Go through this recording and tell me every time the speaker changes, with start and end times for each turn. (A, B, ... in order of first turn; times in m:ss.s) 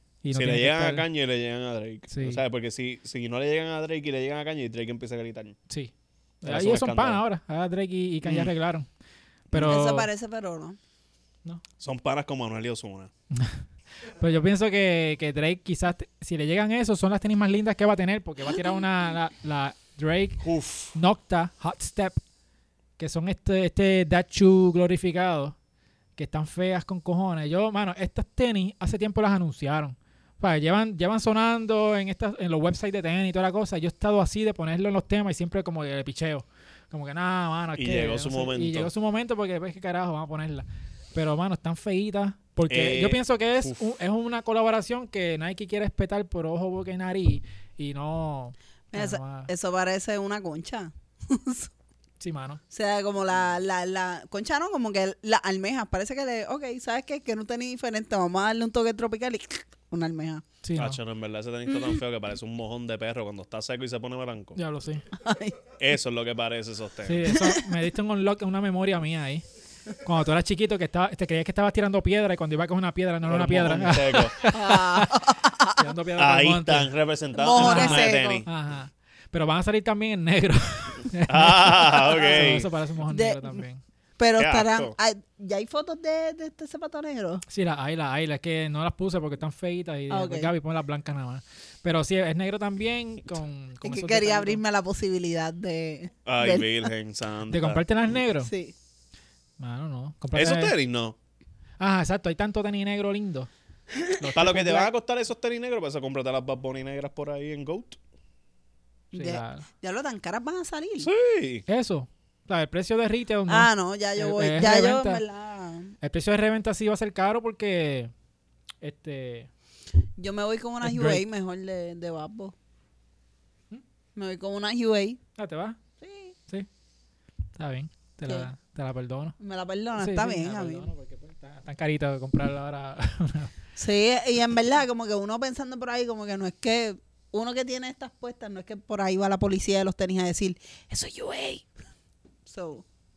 0:00.2-0:01.0 A
0:00.3-0:05.6 B
0:02.1-0:02.4 A
0:05.7-0:08.9 A
0:06.4-0:07.2 B
0:08.2-0:08.5 B
0:09.5-0:10.1 A
0:09.5-0:09.8 B
0:09.6-0:10.8 C
0:11.8-0:13.1 B
0:13.3-0:22.2 A
0:20.4-0:20.9 B
0:23.0-0:25.6 A
0:26.2-0:49.5 A
0:37.8-0:38.9 B
0:42.7-0:43.8 B
0:48.9-0:51.7 C
0:52.2-0:52.6 A
0:52.7-1:00.4 C
1:00.6-1:01.0 A
1:00.8-1:04.6 B
1:04.6-1:05.0 A
1:05.2-1:05.6 C
1:05.8-1:07.3 B
1:07.0-1:09.4 A
1:10.0-1:15.2 A
1:13.2-1:14.4 B
1:14.5-1:15.8 C
1:15.8-1:16.9 A
1:16.2-1:18.5 B
1:17.3-1:18.4 C
1:17.6-1:23.8 A
1:21.3-1:22.7 B
1:22.1-1:22.5 C
1:23.1-1:23.6 C
1:24.2-1:27.4 C
1:24.4-1:24.9 B
1:27.5-1:34.6 A
1:30.1-1:30.5 C
1:33.8-1:36.9 C
1:36.2-1:37.8 B
1:37.5-1:38.5 A
1:38.4-1:38.7 C
1:39.6-1:40.7 A
1:40.3-1:41.2 B
1:41.8-1:43.5 A
1:44.1-1:44.9 A
1:44.3-1:48.0 B
1:49.1-1:51.1 C
1:49.1-1:49.6 A
1:51.0-1:51.6 B
1:51.7-1:55.2 A
1:53.5-1:56.0 C
1:56.0-1:58.1 A
1:58.8-1:59.5 A
2:00.2-2:02.5 C
2:00.8-2:01.2 A
2:04.2-2:05.2 C
2:05.4-2:05.8 A
2:06.0-2:06.3 C
2:07.5-2:09.4 A
2:09.4-2:10.9 C
2:10.0-2:13.5 A
2:13.8-2:21.6 C
2:22.4-2:22.8 C